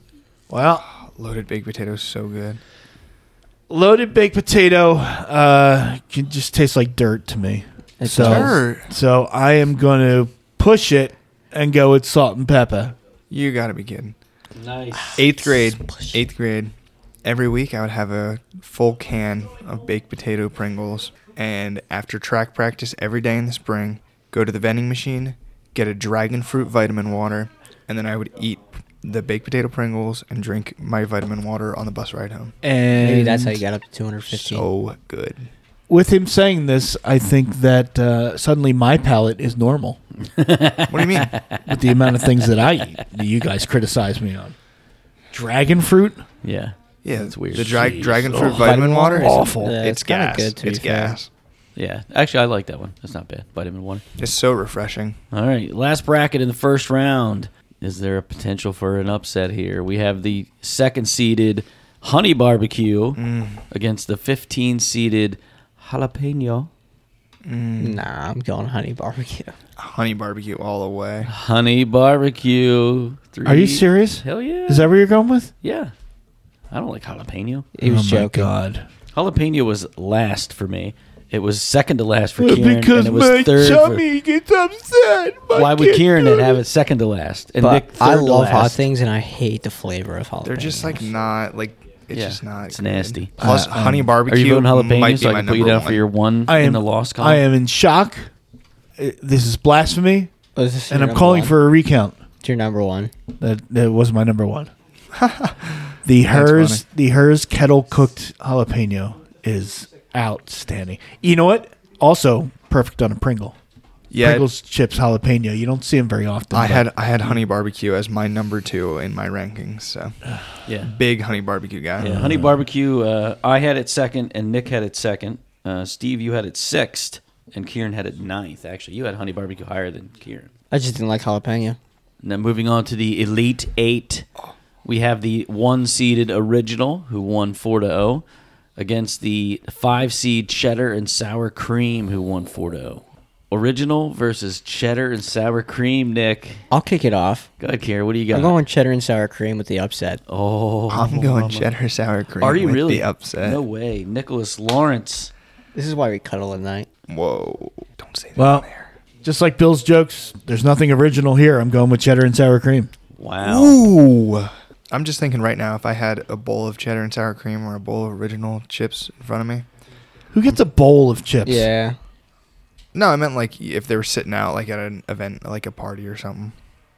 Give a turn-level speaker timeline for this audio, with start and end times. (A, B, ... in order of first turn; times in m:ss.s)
0:00.5-0:00.8 A
0:00.9-0:02.6 B
0:03.7-0:13.0 A
0:08.0-0:08.6 C
0:08.2-0:08.9 B
0:13.3-0:14.2 B
0:14.5-0:15.2 D
0:15.0-0:16.2 C
0:15.2-0:16.7 B
0:17.2-0:32.5 B
0:32.6-0:33.6 A
0:33.0-0:34.7 C
0:34.3-0:35.5 B
0:35.9-0:40.0 A
0:40.3-0:43.1 D
0:40.9-0:41.4 B
0:41.6-0:44.6 A
0:45.3-0:46.2 A
0:46.4-0:48.8 D
0:47.0-0:51.3 B
0:47.6-0:49.8 A
0:48.5-0:51.2 C
0:51.8-0:54.0 D
0:54.2-0:55.2 B
0:55.3-1:03.2 D
1:03.2-1:03.6 B
1:03.7-1:06.7 D
1:07.4-1:08.0 B
1:07.8-1:09.5 C
1:09.8-1:11.3 B
1:11.3-1:14.9 D
1:13.4-1:15.5 A
1:15.6-1:15.9 D
1:16.7-1:17.7 D
1:17.7-1:18.5 C
1:17.8-1:18.9 A
1:19.1-1:24.0 D
1:22.4-1:26.6 A
1:25.5-1:28.8 D
1:27.6-1:31.1 C
1:30.4-1:36.0 B
1:32.1-1:33.4 D
1:33.4-1:34.1 A
1:34.2-1:37.4 D
1:36.5-1:38.3 A
1:39.0-1:40.3 A
1:40.6-1:41.6 C
1:40.9-1:42.2 A
1:42.4-1:43.1 C
1:43.4-1:44.7 A
1:45.1-1:46.8 B
1:46.0-1:53.6 A
1:54.1-1:54.5 B
1:54.2-1:56.9 A
1:56.5-2:00.2 B
2:00.6-2:00.9 D
2:00.8-2:02.4 B
2:02.0-2:10.5 D
2:02.0-2:02.5 A
2:10.7-2:11.8 C
2:12.2-2:14.2 D
2:14.8-2:18.2 D
2:18.8-2:26.6 D
2:26.7-2:27.5 C
2:27.6-2:28.5 D
2:28.3-2:30.2 C
2:30.3-2:31.7 D
2:30.9-2:33.6 B
2:32.4-2:35.3 D
2:35.7-2:36.9 C
2:37.1-2:38.9 B
2:38.4-2:38.7 A
2:39.2-2:42.9 A
2:43.2-2:43.8 D
2:43.4-2:49.6 B
2:50.3-2:51.7 A
2:51.4-2:52.0 C
2:52.9-2:56.5 B